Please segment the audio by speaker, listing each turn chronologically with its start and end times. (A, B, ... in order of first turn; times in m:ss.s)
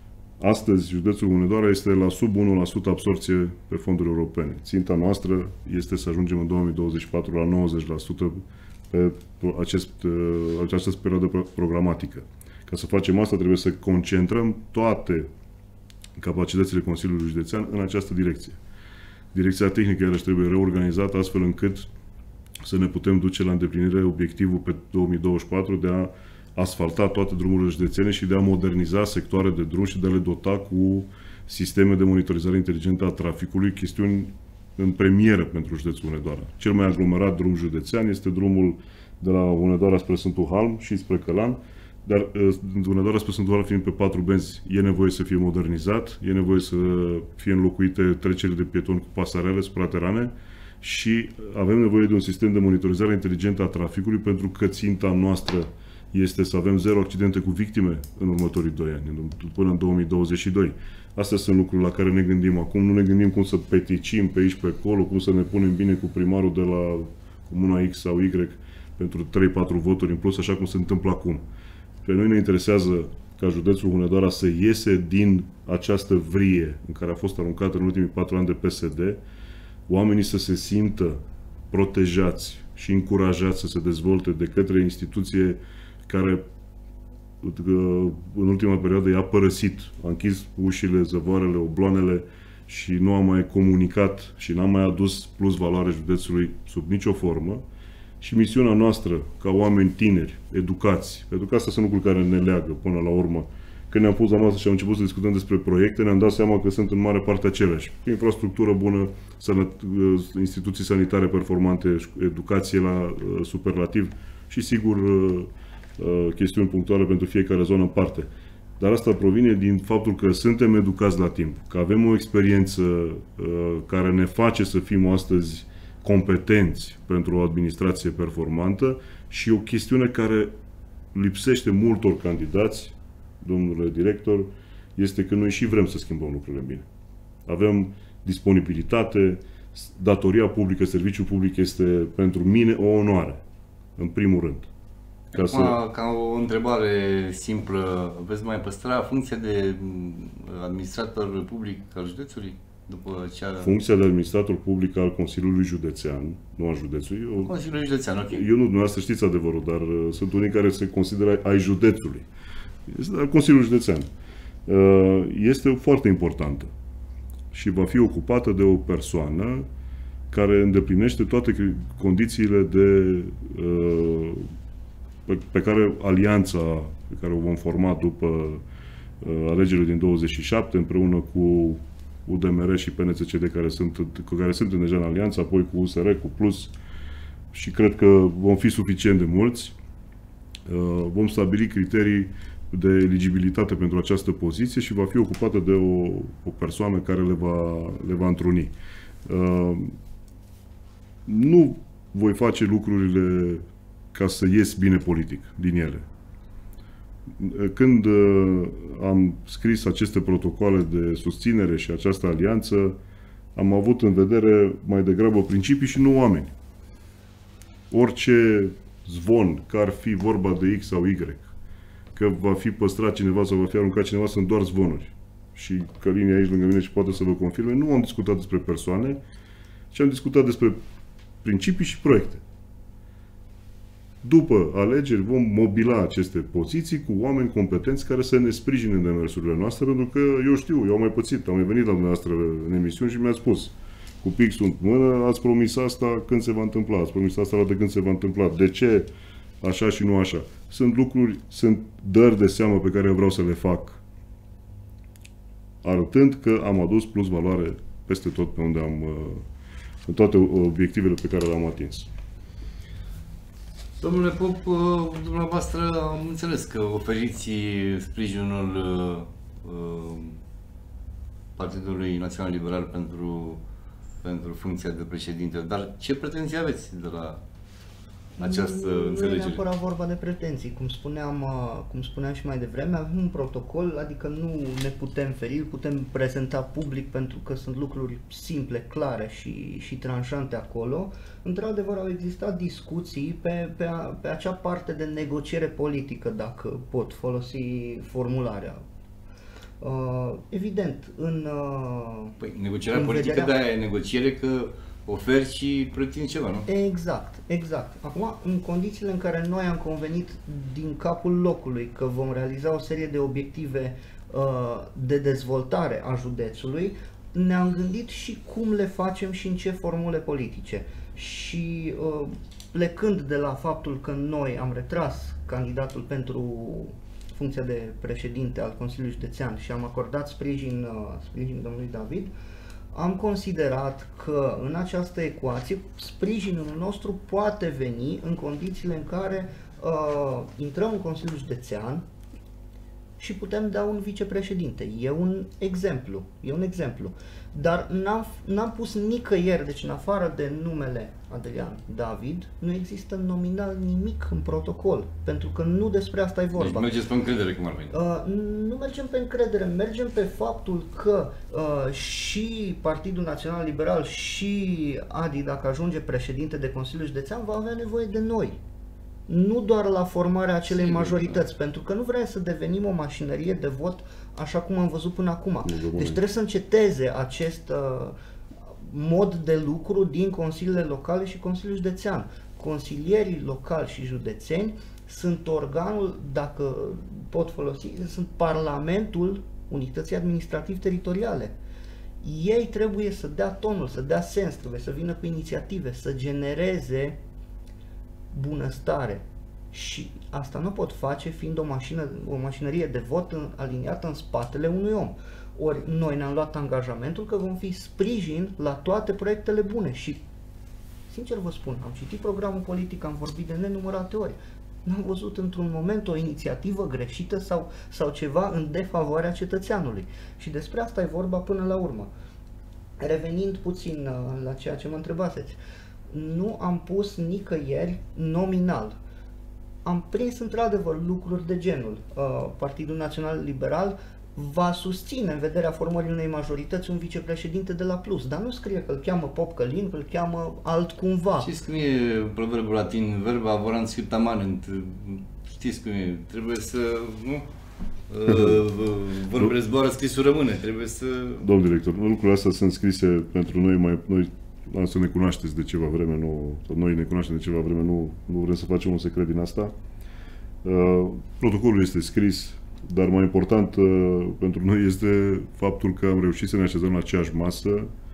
0:00.4-0:15.3 A
0:16.2-0:18.6 A
0:19.3-0:21.9 A
0:22.6-1:11.5 A
1:12.0-1:19.2 A
1:19.9-1:21.2 A
1:21.7-1:26.4 A
1:27.4-1:37.6 A
1:38.2-2:10.5 A
2:11.1-2:16.9 A
2:17.5-2:23.4 A
2:24.0-2:24.7 A
2:25.3-2:33.8 B
2:25.3-2:25.8 A
2:33.6-2:37.5 A
2:37.4-2:38.5 B
2:38.3-2:42.3 A
2:42.9-2:44.1 A
2:44.7-2:46.7 A
2:47.5-2:49.6 A
2:50.3-2:54.5 A
2:55.3-2:58.6 A
2:59.2-3:06.7 A
3:07.5-3:09.8 A
3:10.7-3:18.7 A
3:19.2-3:20.0 A
3:21.3-3:26.1 A
3:27.4-3:33.0 A
3:33.6-3:36.5 A
3:37.9-3:41.5 A
3:42.1-3:49.2 A
3:49.9-3:50.8 A
3:51.4-3:52.4 A
3:54.2-4:09.1 A
4:09.6-4:14.0 A
4:15.8-4:19.4 A
4:20.1-4:22.1 A
4:24.0-4:30.4 B
4:31.6-4:33.6 B
4:34.2-4:37.4 B
4:38.4-4:58.8 C
4:38.4-4:39.6 B
4:59.8-5:02.4 C
5:02.4-5:06.7 B
5:02.9-5:03.5 C
5:06.7-5:32.3 C
5:32.9-5:42.0 C
5:43.2-5:56.9 C
5:56.6-5:58.0 B
5:57.9-6:08.6 C
6:09.3-6:18.2 C
6:10.8-6:11.4 B
6:15.6-6:16.2 A
6:18.8-6:31.6 C
6:32.2-6:37.2 C
6:38.3-6:50.2 C
6:51.1-7:02.1 C
7:03.0-7:05.6 C
7:06.1-7:09.0 C
7:09.8-7:21.5 C
7:21.4-7:27.5 B
7:28.1-7:31.4 B
7:28.3-7:28.6 A
7:31.4-7:39.7 A
7:40.6-7:47.9 A